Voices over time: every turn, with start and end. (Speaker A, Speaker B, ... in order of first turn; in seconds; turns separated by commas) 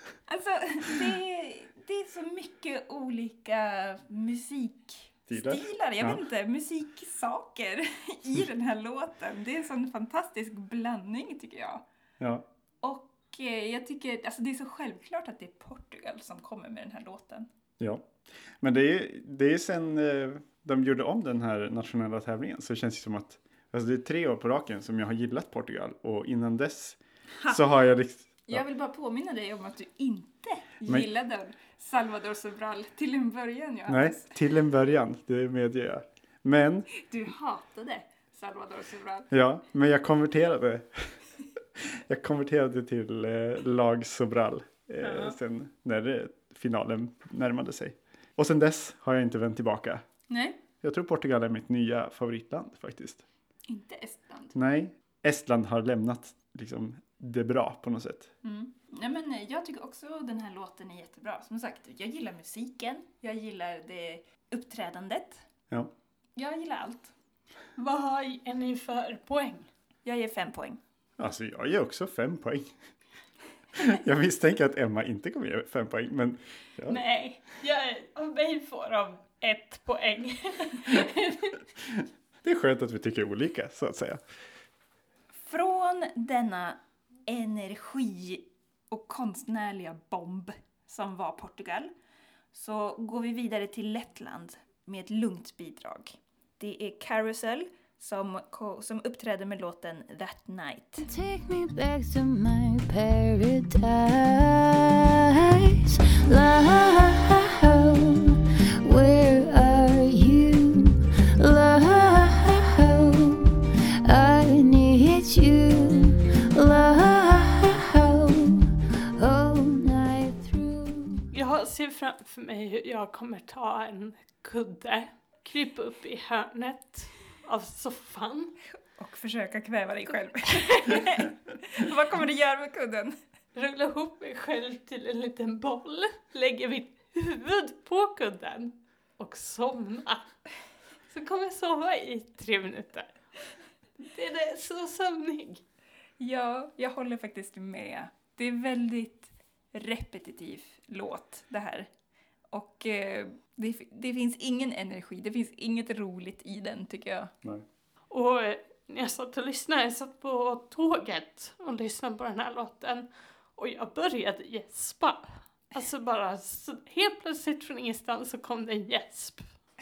Speaker A: 0.3-11.8, Speaker B: 5.3-6.2, Speaker B: 12.2-12.4, Speaker A: 12.8-17.5, Speaker B: 17.8-18.1, Speaker B: 18.6-28.6, Speaker A: 28.5-34.4, Speaker B: 33.9-36.9, Speaker A: 36.9-39.3, Speaker B: 39.3-41.1, Speaker B: 41.8-50.0, Speaker A: 50.3-50.6, Speaker B: 50.8-53.2, Speaker A: 53.7-54.6, Speaker B: 54.6-58.3, Speaker A: 58.4-65.5, Speaker A: 66.4-67.1, Speaker C: 67.8-69.7, Speaker A: 70.0-70.8, Speaker B: 71.2-72.7, Speaker B: 73.8-77.0, Speaker C: 76.9-81.6, Speaker B: 82.4-84.2, Speaker A: 85.4-91.9, Speaker A: 92.5-101.1, Speaker D: 101.0-121.3, Speaker C: 121.3-128.6, Speaker A: 129.0-133.2, Speaker C: 133.6-140.3, Speaker C: 141.1-143.1, Speaker C: 144.0-145.6, Speaker A: 146.2-151.9, Speaker A: 152.5-157.3, Speaker C: 158.1-169.5